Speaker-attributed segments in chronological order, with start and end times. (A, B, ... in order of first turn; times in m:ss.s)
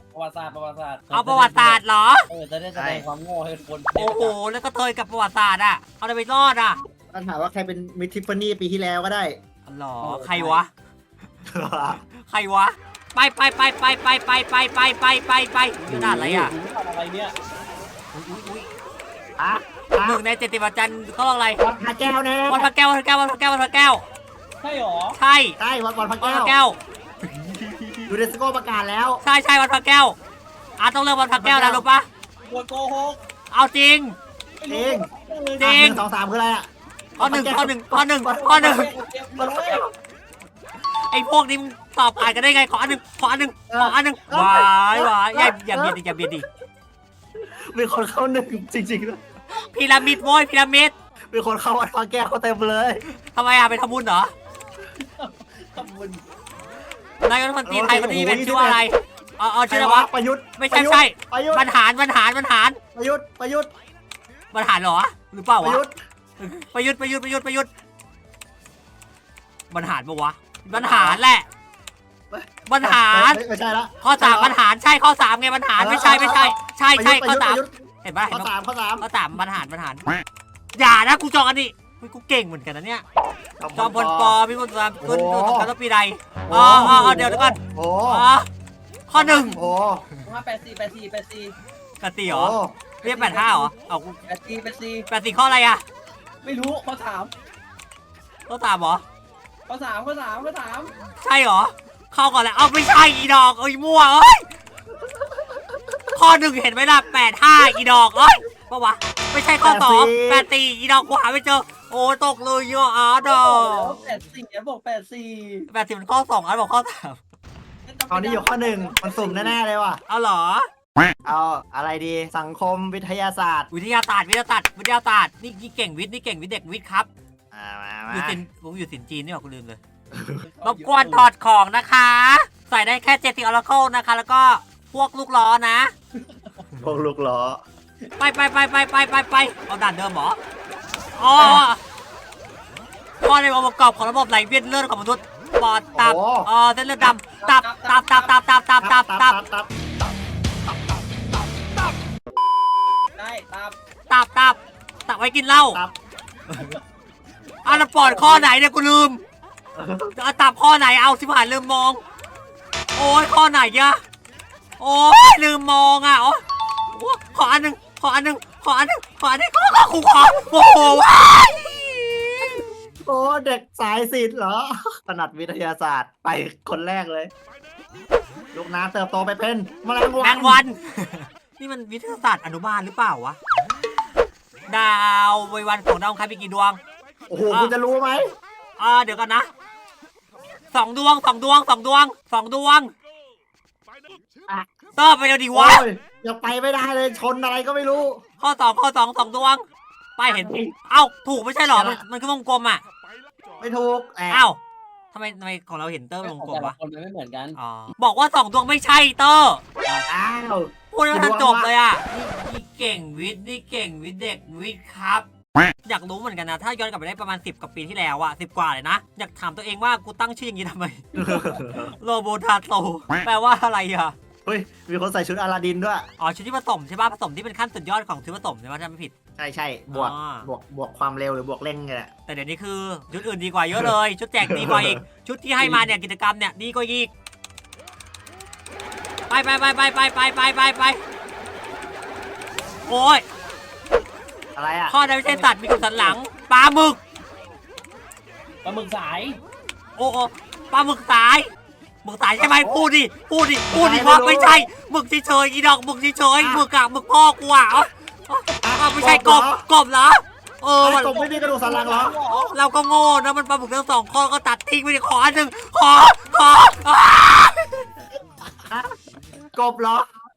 0:00.1-0:04.3 A
0:01.1-0:02.3 B
0:02.7-0:03.0 C
0:03.9-0:06.8 B
0:07.1-0:09.4 C
0:09.6-0:10.7 B
0:10.0-0:10.6 A
0:11.5-0:12.0 C
0:12.2-0:16.5 B
0:15.9-0:17.3 A
0:18.1-0:18.7 B
0:19.4-0:20.2 C
0:20.0-0:21.6 B
0:21.6-0:22.7 C
0:22.5-0:24.0 B
0:24.6-0:25.2 A
0:25.2-0:25.6 B
0:25.6-0:26.5 C
0:26.2-0:26.8 B
0:27.3-0:28.1 B
0:28.1-0:29.2 C
0:29.2-0:30.2 B
0:30.8-0:32.1 B
0:31.4-0:31.8 C
0:32.4-0:33.2 A
0:33.5-0:34.2 B
0:34.6-0:35.9 A
0:34.7-0:35.1 C
0:35.6-0:36.0 B
0:35.6-0:38.8 C
0:37.2-0:38.9 B
0:38.3-0:39.8 A
0:39.4-0:39.9 C
0:41.1-0:46.4 B
0:43.7-0:46.0 C
0:47.4-0:49.2 C
0:49.5-0:50.9 B
0:51.3-0:53.0 C
0:53.2-0:54.3 B
0:55.0-0:56.2 A
0:57.2-1:02.8 B
0:57.6-0:58.8 C
0:59.7-1:01.7 C
1:02.9-1:03.7 C
1:04.5-1:05.8 B
1:05.6-1:06.0 C
1:06.4-1:07.7 B
1:09.7-1:11.4 B
1:10.7-1:11.2 C
1:12.3-1:14.6 C
1:12.7-1:13.4 B
1:14.0-1:20.1 B
1:15.8-1:19.0 C
1:20.7-1:23.0 B
1:23.6-1:24.4 C
1:23.7-1:28.5 B
1:25.0-1:25.7 C
1:26.5-1:28.2 C
1:29.1-1:29.6 B
1:29.1-1:30.0 C
1:30.2-1:31.5 A
1:32.0-1:34.2 B
1:32.3-1:32.8 C
1:33.0-1:33.7 A
1:34.3-1:35.1 A
1:35.1-1:35.8 B
1:36.4-1:37.3 A
1:38.5-1:39.0 B
1:39.7-1:40.9 A
1:41.2-1:44.4 B
1:46.1-1:54.0 B
1:49.6-1:50.5 C
1:53.2-1:55.7 A
1:55.7-1:57.2 B
1:57.9-1:59.5 A
1:58.1-2:00.0 C
2:00.1-2:00.7 B
2:01.2-2:03.7 C
2:03.7-2:07.1 B
2:07.5-2:08.4 C
2:08.1-2:09.8 B
2:10.1-2:10.4 C
2:10.4-2:11.3 A
2:10.6-2:15.9 B
2:16.2-2:16.5 A
2:16.7-2:17.6 C
2:18.2-2:20.4 B
2:21.2-2:21.8 B
2:21.4-2:21.6 C
2:23.2-2:29.4 B
2:26.0-2:26.5 C
2:27.4-2:28.3 A
2:28.8-2:29.7 C
2:33.2-2:33.7 A
2:34.1-2:35.8 B
2:35.5-2:35.9 C
2:37.6-2:39.2 B
2:37.7-2:38.4 A
2:39.7-2:40.1 C
2:40.2-2:42.0 B
2:43.0-2:44.0 B
2:44.8-2:52.6 B
2:53.0-2:57.3 C
2:58.5-3:00.6 C
3:00.2-3:03.4 B
3:04.7-3:06.8 B
3:07.3-3:08.3 C
3:08.8-3:09.5 B
3:10.7-3:12.9 B
3:15.0-3:15.8 B
3:15.5-3:18.2 C
3:18.4-3:19.6 B
3:20.2-3:22.8 B
3:20.3-3:20.7 C
3:21.7-3:22.0 C
3:23.6-3:24.4 C
3:24.3-3:24.6 B
3:25.1-3:26.7 B
3:26.2-3:27.6 A
3:27.6-3:29.6 B
3:30.1-3:31.7 C
3:30.9-3:35.2 B
3:35.8-3:44.1 B
3:41.1-3:41.9 C
3:41.2-3:41.5 A
3:44.4-3:46.1 C
3:46.2-3:49.1 B
3:49.4-3:52.1 C
3:49.9-3:50.5 B
3:52.3-3:57.1 B
3:54.4-3:55.0 C
3:55.6-3:55.8 C
3:59.3-4:01.0 B
4:02.9-4:03.2 B
4:04.5-4:05.0 C
4:04.9-4:07.0 B
4:05.2-4:06.1 A
4:08.6-4:09.4 A
4:10.0-4:11.5 B
4:12.0-4:21.1 B
4:12.4-4:12.8 A
4:13.7-4:14.7 C
4:16.4-4:16.6 C
4:18.6-4:19.6 C
4:20.8-4:22.1 C
4:20.9-4:22.5 A
4:22.5-4:27.8 B
4:28.7-4:28.9 C
4:29.5-4:30.0 C